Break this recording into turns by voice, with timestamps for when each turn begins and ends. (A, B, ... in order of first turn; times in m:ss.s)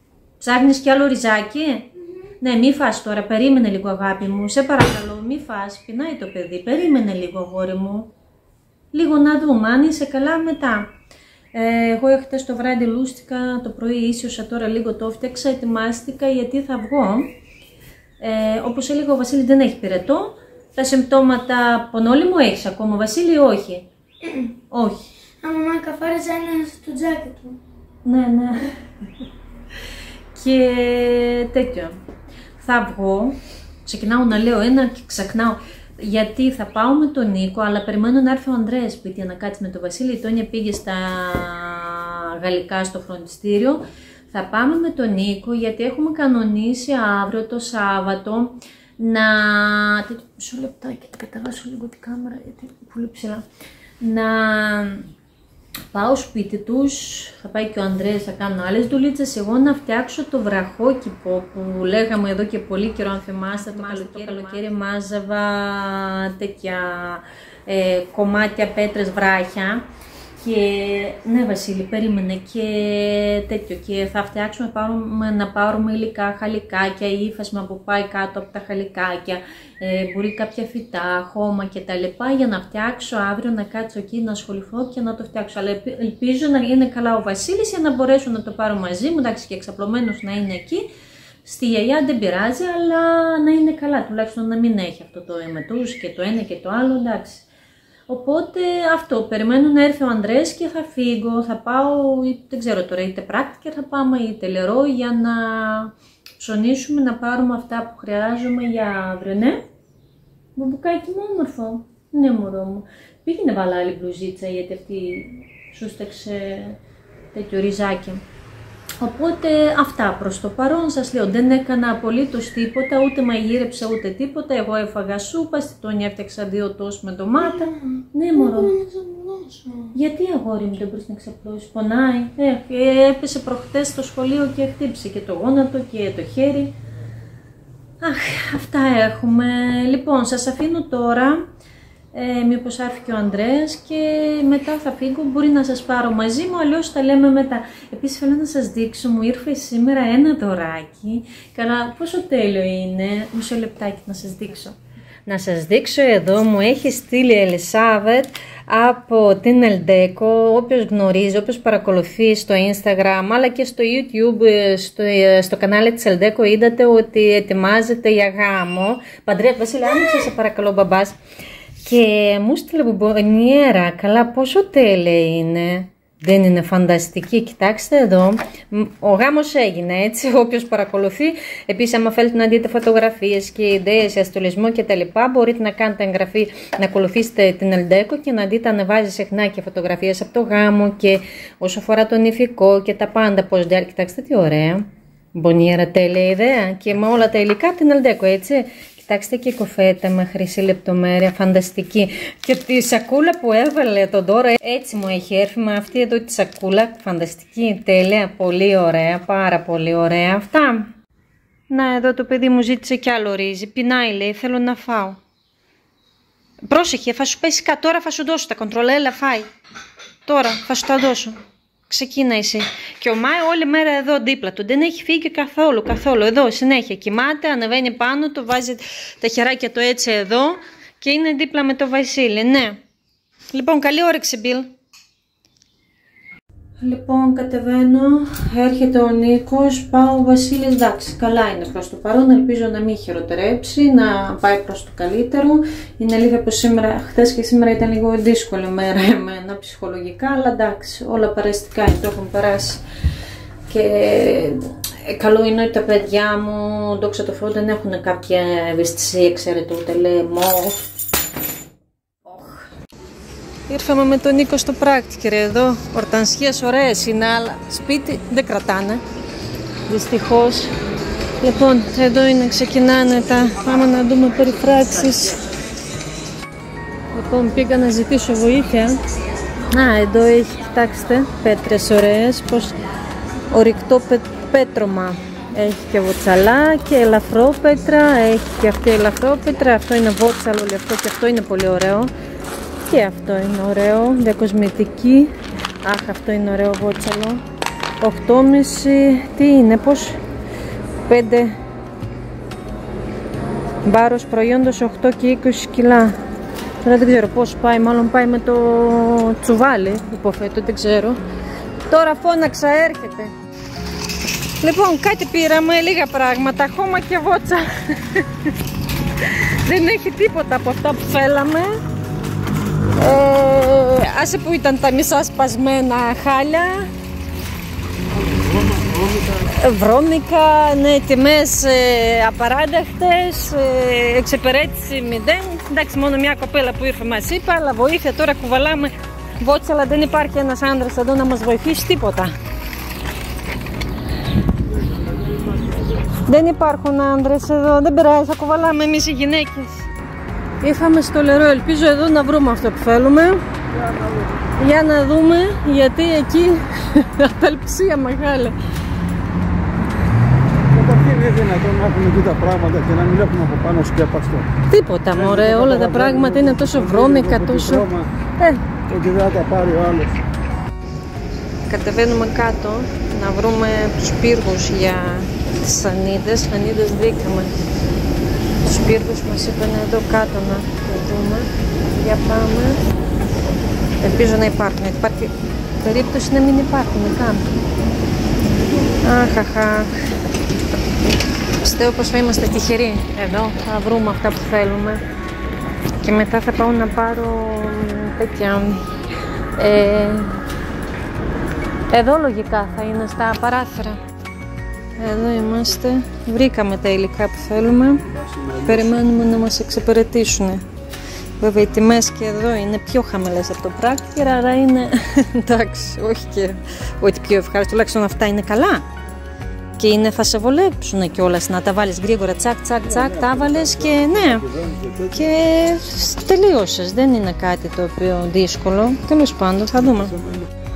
0:00.4-0:08.1 A
0:08.9-0:10.9 A
0:11.5-0:17.3 A
0:18.2-0:25.0 A
0:25.4-0:27.6 B
0:28.0-0:28.8 A
0:30.3-0:32.0 A
0:32.6-0:53.4 A
0:54.0-0:55.1 A
0:55.9-1:09.9 A
1:10.4-1:30.9 A
1:31.4-1:37.4 A
1:38.1-1:49.6 A
1:50.6-1:56.8 A
1:57.3-1:58.2 A
1:59.0-2:08.9 A
2:08.9-2:09.6 B
2:09.9-2:16.7 A
2:18.0-2:21.4 A
2:22.1-2:34.8 A
2:35.3-2:51.2 A
2:51.8-3:30.9 A
3:31.7-3:35.2 A
3:36.6-3:39.5 A
3:40.3-3:41.4 A
3:41.9-3:52.8 A
3:53.5-3:54.7 A
3:56.8-4:12.8 A
4:13.7-4:20.9 A
4:22.2-4:22.7 A
4:23.7-4:29.0 A
4:29.9-4:30.7 A
4:31.4-4:35.4 A
4:37.1-4:39.0 A
4:39.7-4:42.8 A
4:43.5-4:52.1 A
4:52.9-4:55.3 A
4:55.8-4:57.4 A
4:58.0-5:00.2 A
5:01.1-5:01.6 A
5:03.8-5:06.2 A
5:06.8-5:11.2 A
5:11.9-5:13.3 A
5:14.6-5:18.5 A
5:19.2-5:21.8 A
5:23.0-5:26.9 A
5:28.1-5:29.5 C
5:29.4-5:42.3 A
5:44.6-5:46.1 C
5:46.1-5:49.8 A
5:50.6-5:53.4 A
5:53.7-5:54.5 C
5:54.6-5:58.6 A
6:00.7-6:04.5 C
6:04.7-6:07.9 A
6:05.1-6:08.1 C
6:08.4-6:08.6 A
6:08.9-6:10.2 C
6:11.7-6:17.5 A
6:18.6-6:22.8 A
6:24.0-6:27.5 A
6:29.0-6:29.9 A
6:31.6-6:35.0 A
6:36.0-6:38.9 A
6:39.6-6:40.4 A
6:41.9-6:44.0 A
6:45.0-6:48.1 A
6:48.0-6:49.2 C
6:48.6-6:50.6 A
6:51.4-6:58.8 A
6:59.8-7:04.5 A
7:02.8-7:05.3 C
7:05.1-7:10.2 A
7:09.9-7:10.5 C